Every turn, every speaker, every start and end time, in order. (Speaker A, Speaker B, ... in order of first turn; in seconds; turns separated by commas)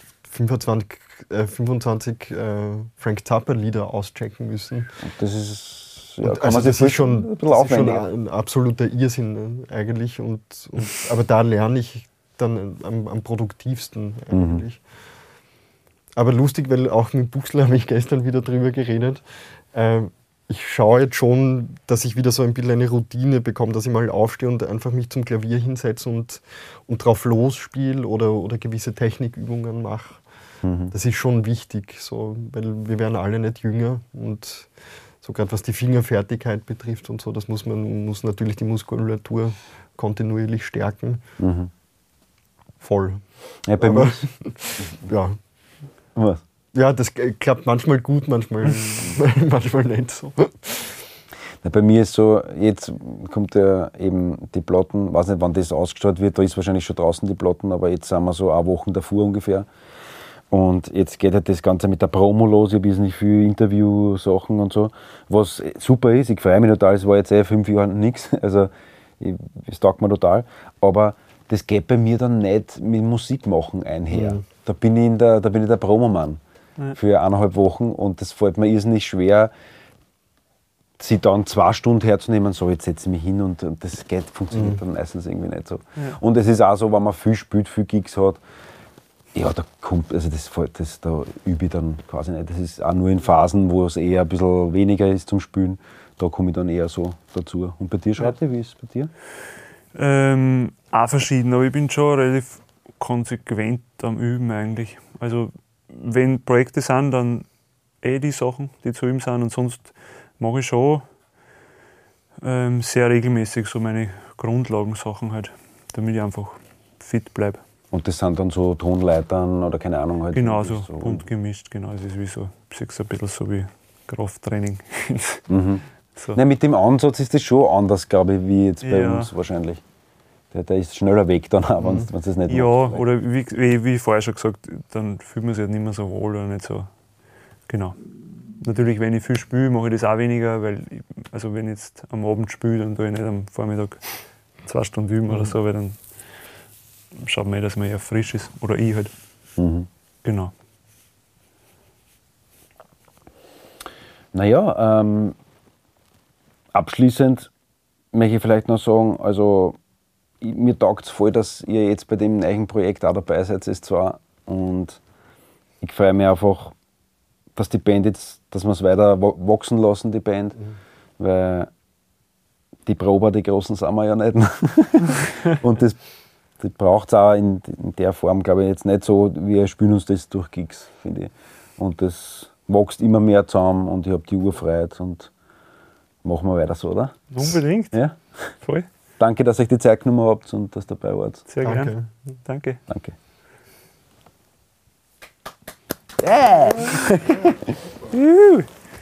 Speaker A: 0.2-5.0, Speaker B: 5.0-8.0, Speaker A: 6.2-14.8, Speaker B: 14.3-14.6, Speaker A: 16.2-30.2, Speaker B: 30.6-30.9, Speaker A: 30.9-41.2, Speaker B: 41.4-41.7, Speaker A: 42.8-43.2, Speaker B: 43.7-44.2, Speaker A: 43.8-45.4, Speaker B: 46.2-46.4, Speaker A: 46.7-51.1, Speaker B: 51.6-59.7, Speaker B: 60.5-76.4, Speaker A: 74.1-74.4, Speaker B: 77.0-79.5, Speaker B: 81.0-88.4, Speaker A: 84.5-84.8, Speaker B: 89.3-99.1, Speaker C: 100.0-107.5, Speaker C: 108.0-111.1, Speaker C: 112.4-117.6, Speaker B: 117.9-121.2, Speaker C: 120.3-125.4, Speaker B: 125.5-125.8, Speaker B: 126.3-129.8, Speaker C: 128.8-129.3, Speaker B: 130.5-133.0, Speaker A: 131.8-132.1, Speaker C: 132.5-136.9, Speaker C: 137.7-138.0, Speaker C: 138.6-146.0, Speaker C: 147.2-149.1, Speaker B: 149.6-149.9, Speaker C: 150.2-150.5, Speaker B: 154.3-155.4, Speaker B: 156.7-157.5, Speaker B: 158.1-159.8, Speaker B: 160.4-165.0, Speaker B: 165.8-166.8, Speaker B: 167.6-170.6, Speaker B: 171.2-171.7, Speaker B: 172.9-176.0, Speaker B: 176.6-185.3, Speaker B: 186.2-187.3, Speaker C: 187.3-188.0, Speaker B: 187.9-188.5, Speaker C: 188.6-188.9, Speaker B: 189.2-191.4, Speaker C: 191.5-191.9, Speaker A: 191.6-192.1, Speaker C: 192.5-192.8, Speaker B: 192.9-193.2, Speaker B: 196.2-197.7, Speaker C: 198.1-198.7